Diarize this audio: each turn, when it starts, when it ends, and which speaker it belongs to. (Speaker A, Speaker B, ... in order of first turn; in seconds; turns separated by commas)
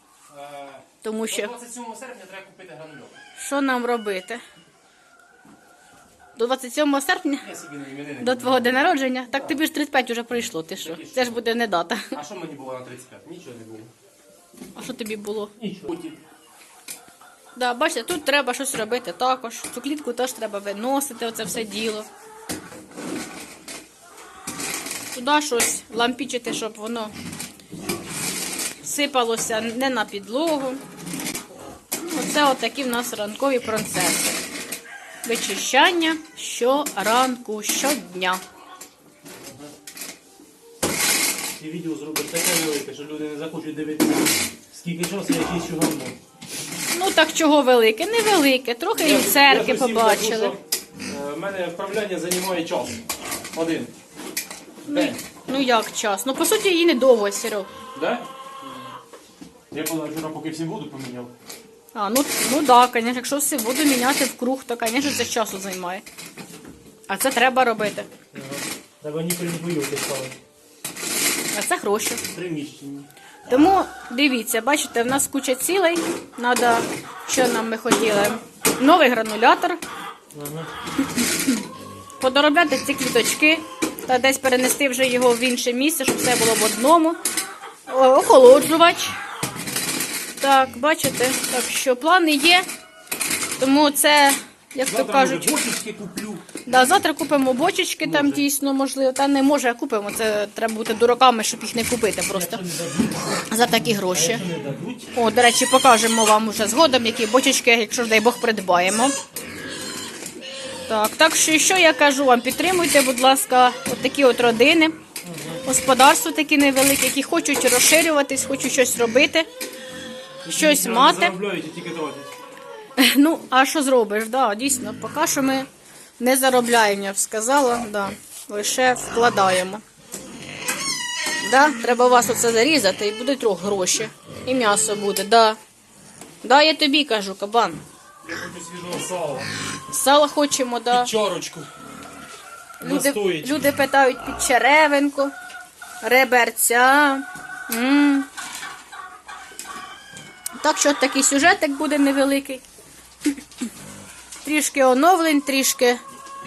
Speaker A: 0.3-3.2, Speaker B: 1.0-1.5, Speaker B: 3.4-4.4, Speaker B: 6.4-7.5, Speaker A: 7.4-8.8, Speaker B: 8.2-12.1, Speaker A: 10.8-11.4, Speaker A: 12.1-13.9, Speaker B: 14.8-15.5, Speaker A: 15.6-16.2, Speaker B: 17.6-22.1, Speaker B: 25.1-27.1, Speaker B: 28.8-30.8, Speaker B: 32.0-34.4, Speaker B: 35.2-38.4, Speaker A: 39.4-39.7, Speaker A: 41.5-46.2, Speaker B: 46.9-50.6, Speaker A: 49.0-53.9, Speaker A: 54.9-55.2, Speaker B: 54.9-57.7, Speaker A: 57.9-58.9, Speaker A: 59.7-61.3, Speaker B: 61.9-66.0, Speaker B: 67.1-68.1, Speaker A: 68.3-70.4, Speaker B: 71.5-72.2, Speaker A: 72.3-73.1, Speaker B: 73.5-79.8, Speaker A: 80.3-80.7, Speaker B: 81.2-81.6, Speaker B: 82.2-87.2, Speaker B: 87.9-89.2, Speaker B: 90.4-92.7, Speaker B: 93.6-95.5, Speaker A: 94.9-96.4, Speaker B: 96.7-102.6, Speaker A: 98.0-98.4, Speaker A: 102.3-105.1, Speaker B: 103.5-104.4, Speaker B: 105.1-109.2, Speaker B: 110.9-115.0, Speaker A: 115.2-115.6, Speaker B: 115.6-119.5, Speaker A: 120.4-122.3, Speaker B: 120.5-121.4, Speaker B: 123.0-125.7, Speaker B: 126.2-129.8, Speaker B: 131.4-135.6, Speaker B: 136.4-137.8, Speaker A: 138.2-139.5, Speaker B: 139.9-141.1, Speaker A: 140.9-141.7, Speaker B: 142.8-145.3, Speaker A: 142.8-143.6, Speaker B: 146.0-148.3, Speaker B: 150.6-152.6, Speaker B: 154.4-156.0